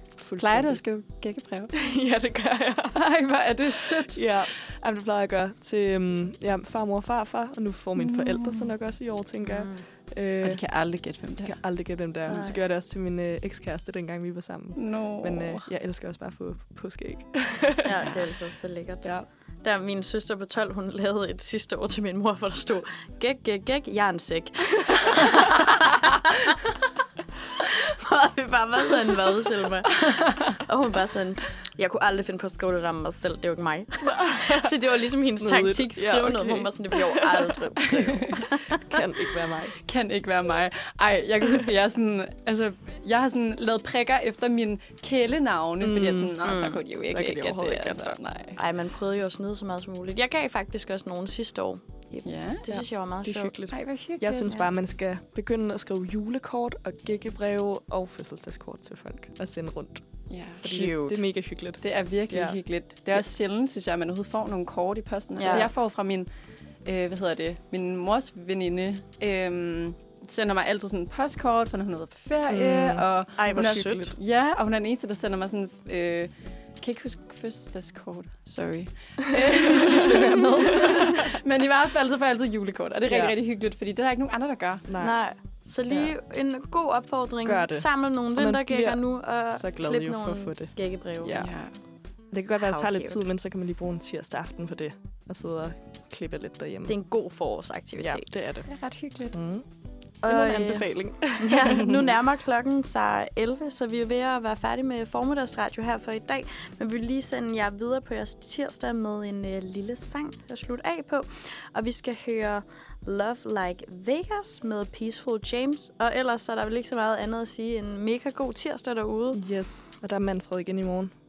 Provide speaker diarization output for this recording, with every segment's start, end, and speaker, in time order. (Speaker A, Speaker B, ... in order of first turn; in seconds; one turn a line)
Speaker A: 0.2-0.8
Speaker B: 0.4-1.7
Speaker A: 1.7-3.0
Speaker B: 2.9-4.3
Speaker A: 3.6-10.6
Speaker B: 8.0-8.7
Speaker C: 9.4-9.8
Speaker B: 10.4-12.5
Speaker A: 11.4-18.2
Speaker C: 12.3-12.6
Speaker B: 14.8-15.7
Speaker C: 17.8-26.7
Speaker C: 27.6-39.0
Speaker A: 34.0-37.6
Speaker A: 38.8-39.8
Speaker B: 39.8-48.6
Speaker A: 45.8-46.4
Speaker C: 46.4-46.8
Speaker A: 47.0-48.2
Speaker C: 48.6-53.6
Speaker B: 52.2-52.6
Speaker A: 52.6-60.0
Speaker B: 53.7-54.5
Speaker B: 60.3-60.6
Speaker A: 60.6-62.6
Speaker C: 60.6-61.2
Speaker B: 61.8-66.3
Speaker C: 65.4-65.7
Speaker A: 65.4-65.7
Speaker B: 66.8-84.8
Speaker A: 72.5-74.0
Speaker C: 73.4-74.2
Speaker A: 79.7-81.3
Speaker A: 83.1-83.3
Speaker A: 84.9-85.2
Speaker C: 85.0-91.4
Speaker A: 85.9-86.1
Speaker A: 87.4-91.5
Speaker B: 91.3-91.7
Speaker A: 92.3-97.0
Speaker C: 92.6-93.2
Speaker C: 96.9-98.2
Speaker A: 98.0-98.7
Speaker B: 98.7-99.4
Speaker A: 99.3-99.6
Speaker A: 100.2-102.0
Speaker C: 100.2-119.4
Speaker A: 119.3-121.1